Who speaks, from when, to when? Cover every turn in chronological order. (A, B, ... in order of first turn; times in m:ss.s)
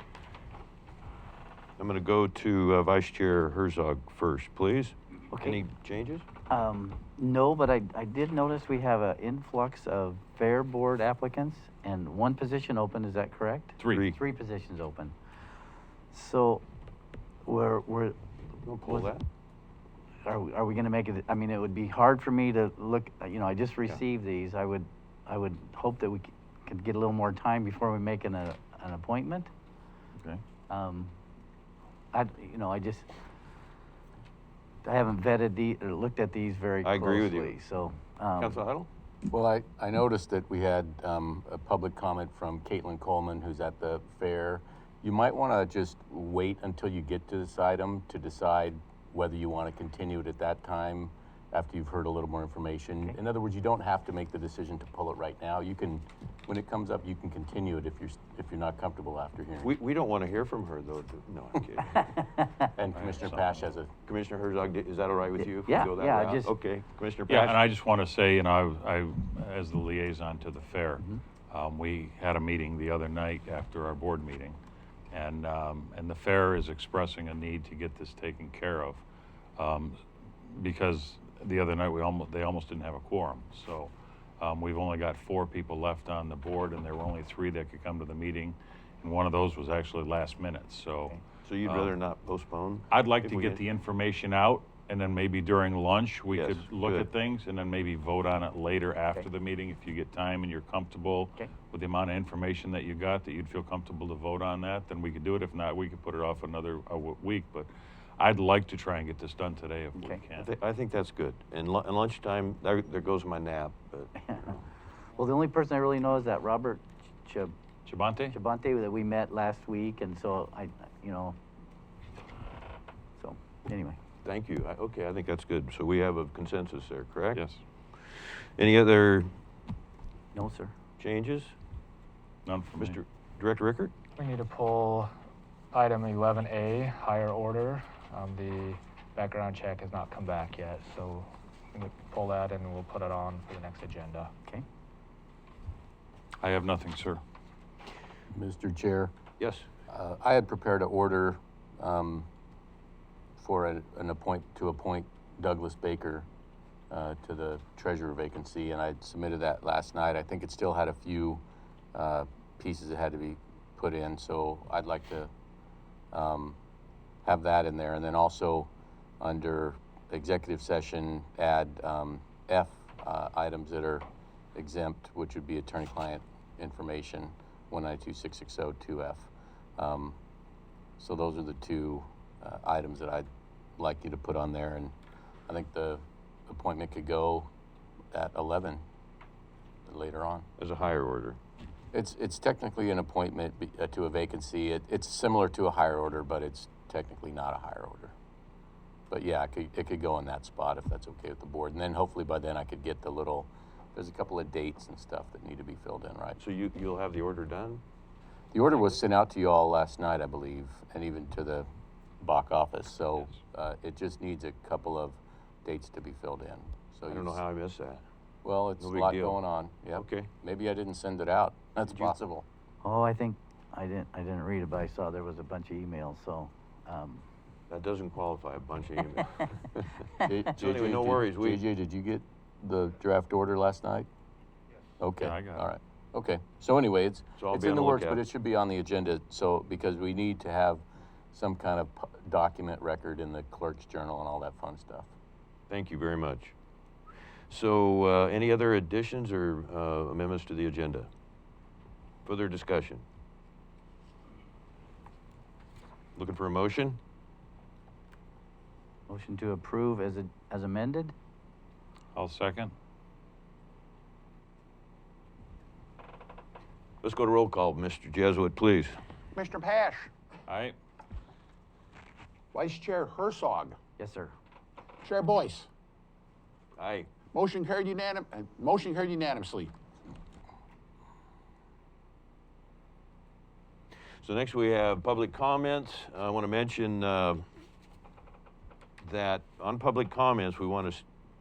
0:01.8-0:06.3 A
0:05.3-0:05.6 B
0:06.5-0:15.1 B
0:13.8-0:14.0 C
0:13.9-0:14.2 A
0:16.1-0:16.6 B
0:17.4-0:18.2 B
0:18.6-0:19.2 A
0:18.8-0:19.1 B
0:20.2-0:29.5 B
0:30.7-0:31.1 B
0:32.1-0:33.1 B
0:34.8-0:38.6 B
0:36.8-0:37.6 A
0:38.4-0:38.9 A
0:39.3-0:59.7 D
0:59.6-1:02.2 A
1:02.7-1:03.9 D
1:02.9-1:03.6 C
1:04.1-1:07.6 A
1:05.4-1:06.5 B
1:07.3-1:14.6 C
1:15.1-1:19.0 C
1:19.6-1:31.9 C
1:31.4-1:33.6 A
1:32.9-1:50.5 C
1:36.3-1:37.1 A
1:50.3-1:54.6 A
1:55.2-1:57.5 B
1:57.9-1:58.4 C
1:58.3-2:01.4 B
2:03.2-2:04.0 B
2:04.2-2:07.4 A
2:07.3-2:07.6 C
2:08.1-2:09.3 A
2:10.3-2:10.7 B
2:11.0-2:11.5 A
2:12.4-2:13.0 C
2:12.8-2:13.9 A
2:14.2-2:15.1 E
2:15.7-2:24.3 E
2:26.4-2:27.2 C
2:28.3-2:29.1 D
2:29.4-2:29.7 A
2:29.9-2:32.3 D
2:33.4-2:36.3 D
2:36.9-2:41.4 D
2:41.9-2:45.3 D
2:46.1-2:46.6 D
2:47.2-3:00.2 D
3:01.0-3:03.2 D
3:03.8-3:04.9 D
3:05.5-3:07.5 D
3:08.1-3:08.8 D
3:09.8-3:10.5 D
3:10.6-3:11.4 A
3:11.9-3:18.1 D
3:19.1-3:26.4 D
3:26.4-3:27.8 A
3:28.5-3:31.7 D
3:32.2-3:37.4 D
3:37.1-3:38.0 A
3:38.4-3:42.4 D
3:38.8-3:39.4 A
3:40.0-3:40.3 A
3:41.9-3:42.1 A
3:42.8-3:47.2 B
3:47.7-3:49.9 A
3:50.2-3:54.1 D
3:50.5-3:51.6 A
3:55.0-4:05.1 D
3:55.2-3:55.7 C
3:57.4-3:58.2 A
4:05.7-4:06.5 A
4:07.5-4:11.1 A
4:12.2-4:13.0 A
4:16.2-4:17.0 A
4:19.1-4:21.1 B
4:22.1-4:22.7 C
4:27.0-4:29.0 A
4:29.3-4:30.1 F
4:30.5-4:30.8 C
4:32.5-4:33.8 F
4:34.0-4:34.3 B
4:35.0-4:35.7 F
4:36.8-4:37.1 A
4:37.3-4:39.7 F
4:44.2-4:47.4 A
4:49.0-4:51.1 A